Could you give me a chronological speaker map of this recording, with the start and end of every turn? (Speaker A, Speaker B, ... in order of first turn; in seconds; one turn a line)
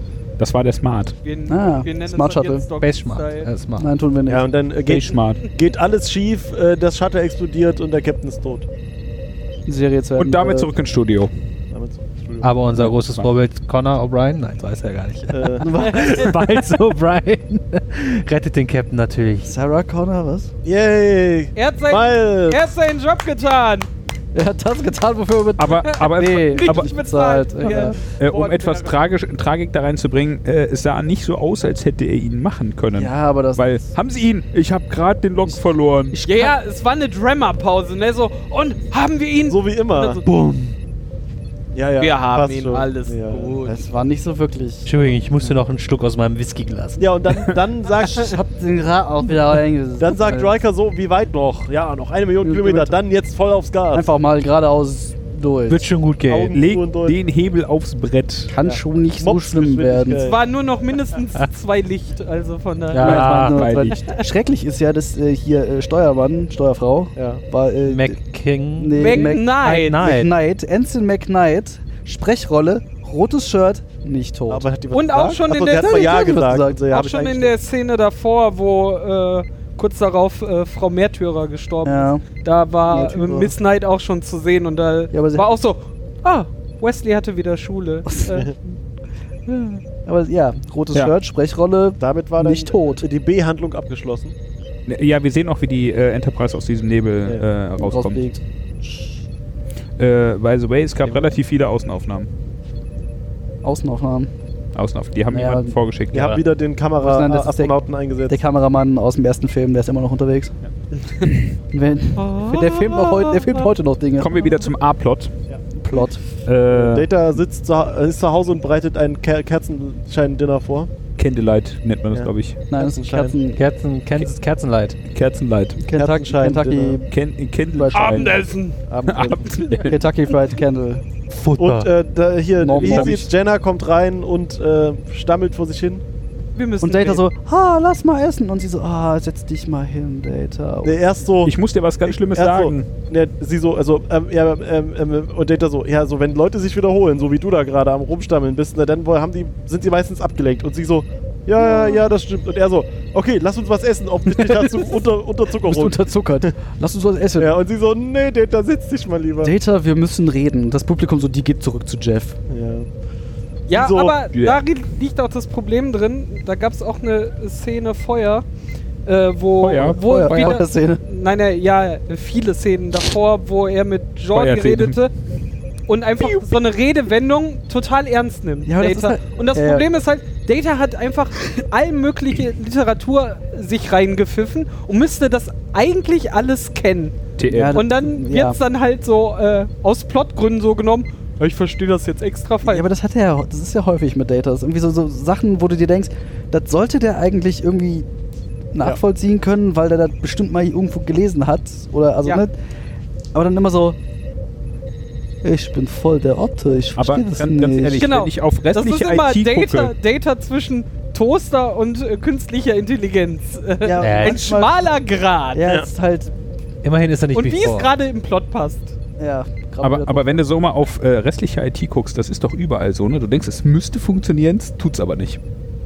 Speaker A: 0.4-1.1
Speaker B: 1.2-3.5
Speaker C: 1.5-2.6
Speaker D: 2.8-3.9
Speaker C: 3.8-4.5
Speaker E: 4.3-8.7
Speaker A: 4.8-5.4
Speaker C: 9.7-10.7
Speaker A: 10.2-11.3
Speaker E: 11.7-12.5
Speaker D: 12.4-19.5
Speaker A: 12.7-13.3
Speaker E: 15.3-15.7
Speaker C: 15.6-16.3
Speaker B: 15.8-16.3
Speaker C: 19.4-20.5
Speaker E: 20.6-22.6
Speaker B: 21.5-23.9
Speaker C: 24.3-28.0
Speaker A: 25.6-26.9
Speaker B: 25.8-29.0
Speaker A: 27.9-36.2
Speaker C: 32.9-33.9
Speaker C: 35.5-36.5
Speaker B: 36.3-40.2
Speaker E: 39.5-40.2
Speaker D: 40.2-40.8
Speaker E: 41.7-43.7
Speaker B: 42.0-43.8
Speaker C: 43.6-45.5
Speaker D: 44.9-47.0
Speaker E: 47.0-48.4
Speaker C: 47.9-50.6
Speaker E: 50.0-54.1
Speaker C: 52.4-53.0
Speaker C: 53.9-55.9
Speaker D: 55.7-56.5
Speaker E: 56.2-57.2
Speaker A: 56.5-58.5
Speaker C: 58.5-60.2
Speaker E: 58.6-60.4
Speaker B: 60.2-63.2
Speaker D: 62.9-63.7
Speaker C: 63.0-68.2
Speaker A: 63.0-64.0
Speaker E: 67.2-67.4
Speaker D: 67.8-70.3
Speaker C: 68.8-74.7
Speaker B: 69.0-70.0
Speaker E: 74.5-77.5
Speaker B: 74.9-88.5
Speaker C: 75.8-76.9
Speaker C: 81.8-82.2
Speaker C: 82.9-83.5
Speaker C: 85.1-85.5
Speaker C: 88.0-88.4
Speaker C: 89.5-93.0
Speaker E: 92.0-94.3
Speaker A: 94.8-98.2
Speaker C: 97.8-99.0
Speaker A: 100.0-102.3
Speaker C: 103.6-104.3
Speaker A: 104.7-106.4
Speaker C: 105.3-105.8
Speaker E: 106.1-108.4
Speaker C: 107.0-110.5
Speaker C: 111.2-114.5
Speaker B: 112.2-113.6
Speaker A: 114.2-115.3
Speaker C: 115.7-116.2
Speaker A: 116.4-117.1
Speaker E: 116.7-120.9
Speaker A: 121.2-122.6
Speaker E: 122.1-123.4
Speaker C: 122.7-123.6
Speaker D: 123.5-125.0
Speaker A: 125.1-125.8
Speaker C: 125.8-127.1
Speaker E: 125.9-127.0
Speaker A: 127.1-128.4
Speaker C: 127.7-128.3
Speaker B: 127.9-128.8
Speaker E: 128.9-129.4
Speaker C: 129.0-131.0
Speaker A: 129.1-130.0
Speaker B: 129.4-129.8
Speaker D: 131.3-131.9
Speaker E: 131.6-136.0
Speaker C: 132.6-133.3
Speaker A: 132.8-133.2
Speaker B: 136.5-137.2
Speaker C: 136.8-141.0
Speaker E: 140.8-156.5
Speaker A: 141.4-142.9
Speaker C: 151.6-152.1
Speaker C: 154.3-155.0
Speaker C: 155.6-157.5
Speaker E: 157.4-159.5
Speaker C: 159.4-162.4
Speaker E: 162.5-162.9
Speaker B: 163.7-168.4
Speaker E: 163.7-164.2
Speaker A: 164.3-164.6
Speaker B: 169.1-175.1
Speaker A: 169.6-170.0
Speaker C: 169.8-171.0
Speaker A: 174.3-175.0
Speaker B: 175.9-187.2
Speaker C: 178.7-179.8
Speaker A: 187.4-187.8
Speaker C: 187.5-188.6
Speaker B: 187.7-192.9
Speaker C: 192.6-198.1
Speaker C: 198.7-202.5
Speaker C: 203.3-204.0
Speaker C: 205.4-208.1
Speaker A: 207.0-209.9
Speaker B: 207.9-215.7
Speaker C: 213.8-214.9
Speaker D: 214.0-214.4
Speaker C: 215.5-216.3
Speaker D: 216.8-217.9
Speaker B: 217.3-218.9
Speaker C: 219.2-220.4
Speaker A: 219.8-225.4